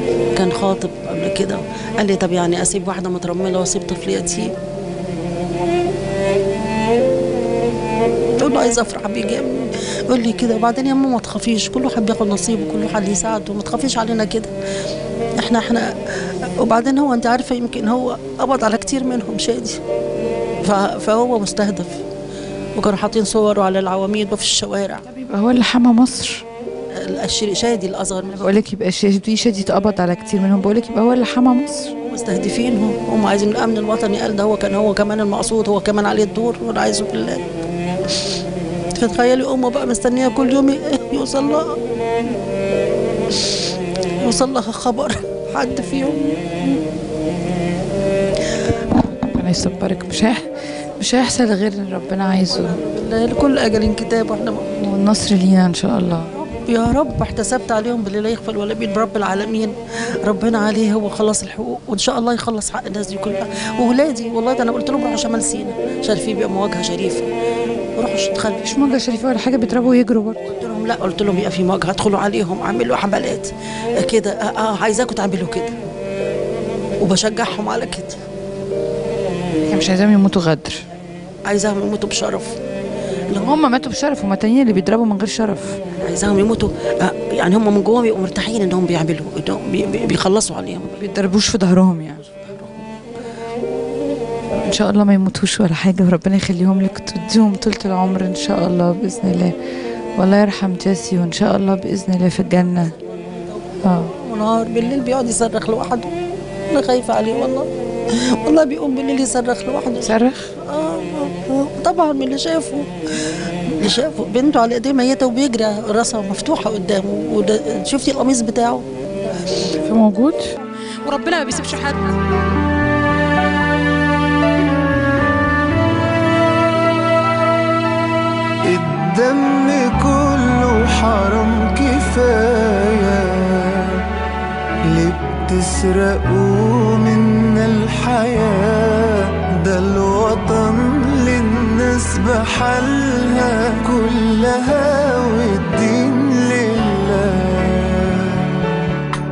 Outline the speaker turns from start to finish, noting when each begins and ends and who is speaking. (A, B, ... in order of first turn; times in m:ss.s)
0:00.3-0:04.5 A
0:08.4-0:14.5 A
0:15.4-0:15.9 A
0:16.6-0:19.8 A
0:20.6-0:22.0 A
0:22.8-0:25.0 A
0:25.0-0:26.4 B
0:26.9-0:28.5 A
0:28.3-0:31.9 B
0:32.0-0:37.4 A
0:38.9-0:41.8 A
0:44.2-0:46.6 A
0:48.9-0:52.8 B
0:52.5-0:54.7 A
0:54.8-0:56.3 B
0:56.3-1:07.2 A
1:08.0-1:08.6 A
1:08.6-1:10.5 B
1:10.5-1:15.7 A
1:17.0-1:18.2 A
1:19.6-1:20.8 B
1:21.4-1:22.6 A
1:23.3-1:25.8 B
1:26.0-1:31.0 A
1:31.0-1:32.3 B
1:34.5-1:39.5 B
1:40.2-1:42.9 B
1:43.5-1:46.1 A
1:43.8-1:44.1 B
1:46.7-1:58.8 A
1:50.0-1:50.5 B
1:59.6-2:02.1 B
2:08.6-2:14.0 C
2:14.9-2:28.5 C